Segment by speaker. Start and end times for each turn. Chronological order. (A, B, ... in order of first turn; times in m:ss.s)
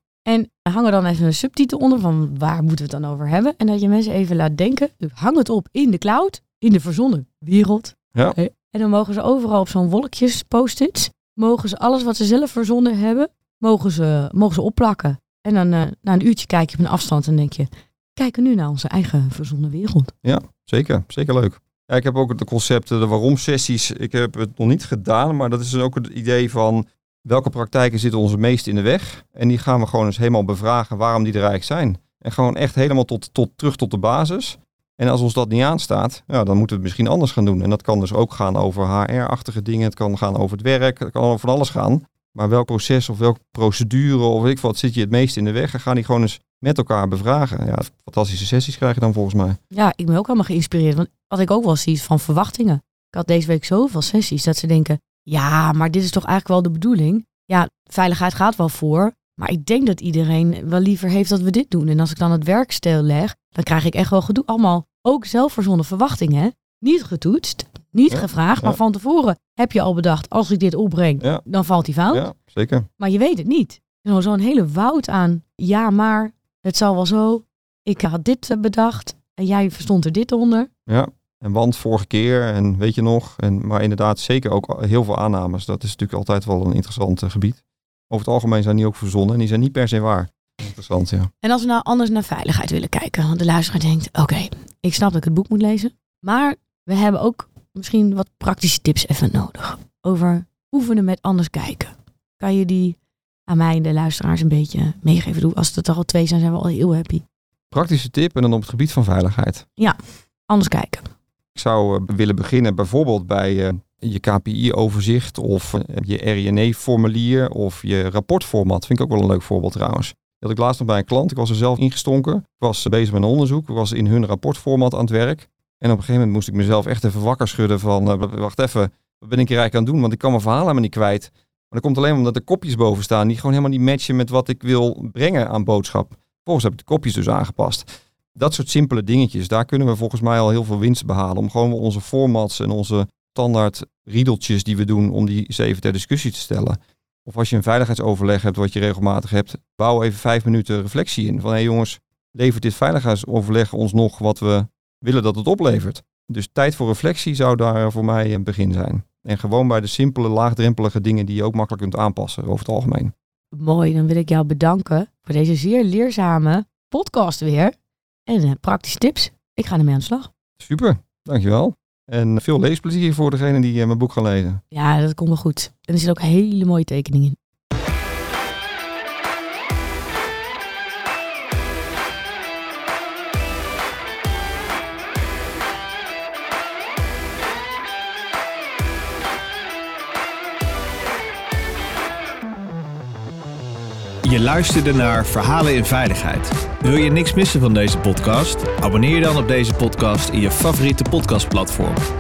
0:00.2-0:20.1 A
0:20.2-0:49.6 B
0:49.7-1:12.3 A
1:08.1-1:08.8 B
1:12.1-1:12.9 B
1:13.0-1:20.7 A
1:20.9-1:31.3 B
1:31.4-1:47.2 A
1:47.7-1:49.6 B
1:49.8-1:51.1 A
1:51.5-2:43.1 B
2:43.5-2:47.7 A
2:48.3-2:50.3 A
2:50.6-2:54.6 B
2:54.7-2:57.4 A
3:14.2-3:22.0 C